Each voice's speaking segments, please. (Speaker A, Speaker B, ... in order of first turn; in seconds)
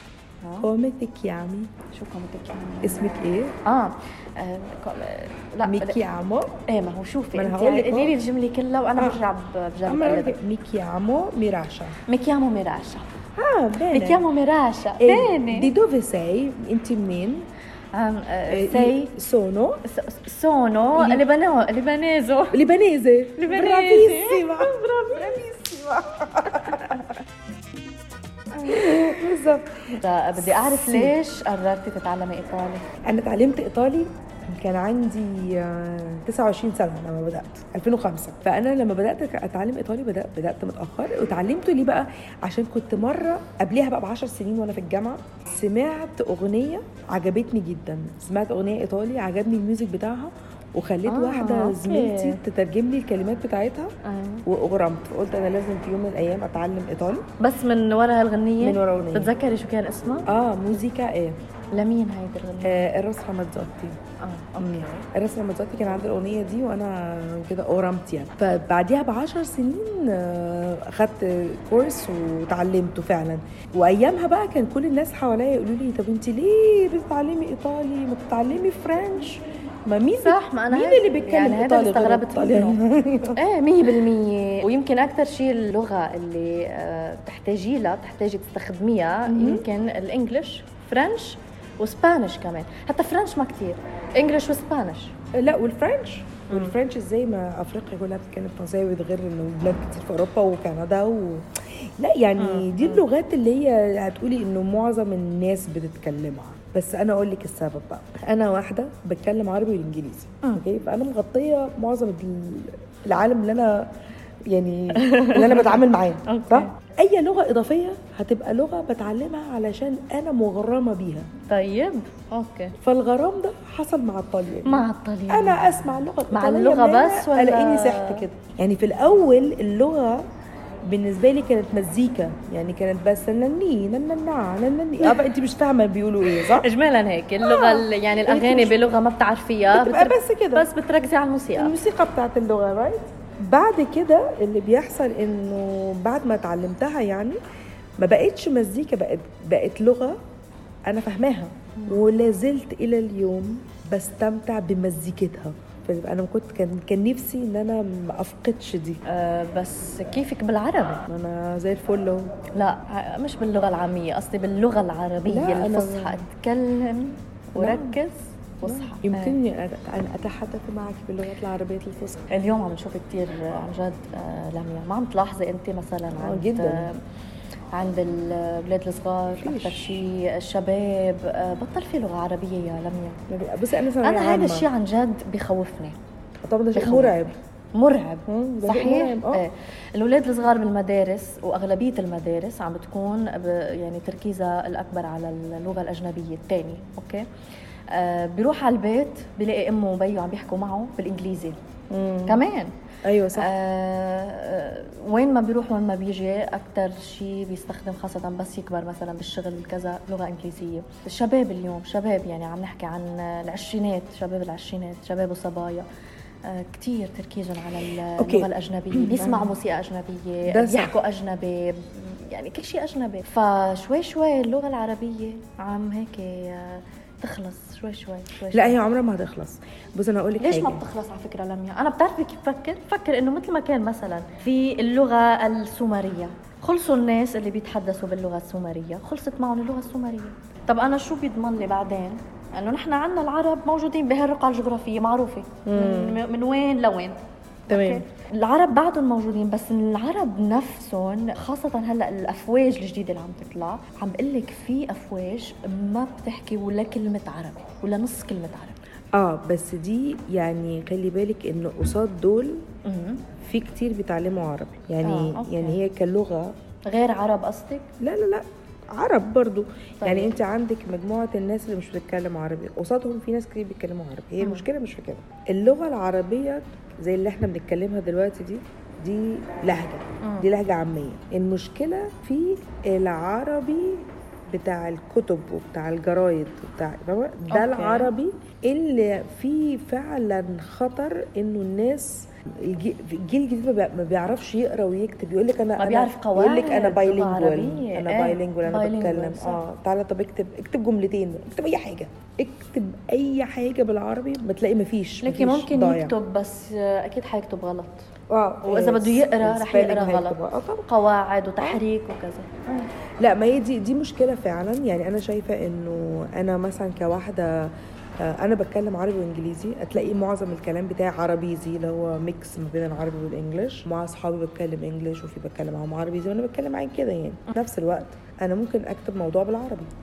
Speaker A: 0.4-0.7, 1.9-3.0, 3.6-6.0, 6.7-10.4, 12.1-13.1, 13.9-15.7, 17.9-19.1, 19.8-22.6, 23.4-25.4, 29.9-32.9, 51.0-52.4, 54.0-54.5, 57.4-60.3, 61.7-62.8, 64.2-65.1, 80.2-82.8, 83.3-95.1, 96.5-96.7, 102.4-103.0, 114.9-116.7, 121.5-122.7, 124.7-128.2, 136.3-141.7, 151.8-152.0, 159.0-161.0, 162.5-169.3, 172.3-177.0, 177.7-183.2, 184.0-186.0, 186.7-197.3, 197.9-201.6, 202.3-202.7, 203.3-215.8, 216.4-228.8, 230.4-258.8, 262.8-263.2, 265.0-265.8, 266.9-267.9, 270.0-270.4, 280.2-280.5, 287.5-288.1, 295.8-299.6, 305.2-308.1, 308.6-312.9
Speaker B: 0.6-1.7, 2.8-3.5, 5.6-6.6, 7.3-8.1, 8.9-9.2, 9.8-12.0, 13.3-14.2, 15.0-17.5, 18.5-19.8, 20.9-21.2, 22.5-27.2, 28.5-31.1, 33.0-53.9, 54.5-57.2, 58.6-59.3, 60.3-61.4, 62.6-64.0, 64.6-83.4, 89.3-89.7, 95.3-113.9, 114.5-121.3, 122.8-130.2, 130.8-136.7, 137.4-138.8, 139.7-140.7, 141.5-147.4, 148.0-150.2, 150.9-159.0, 161.1-162.3, 165.2-166.2, 167.5-168.0, 168.6-172.2, 176.1-176.9, 179.4-180.0, 183.3-184.7, 186.4-187.3, 188.3-189.4, 201.9-202.4, 203.0-203.5, 218.2-219.5, 220.5-221.0, 228.5-230.8, 245.7-246.2, 247.7-248.0, 259.1-262.6, 263.4-266.5, 268.0-306.1, 308.3-310.9, 313.2-317.7, 318.2-329.9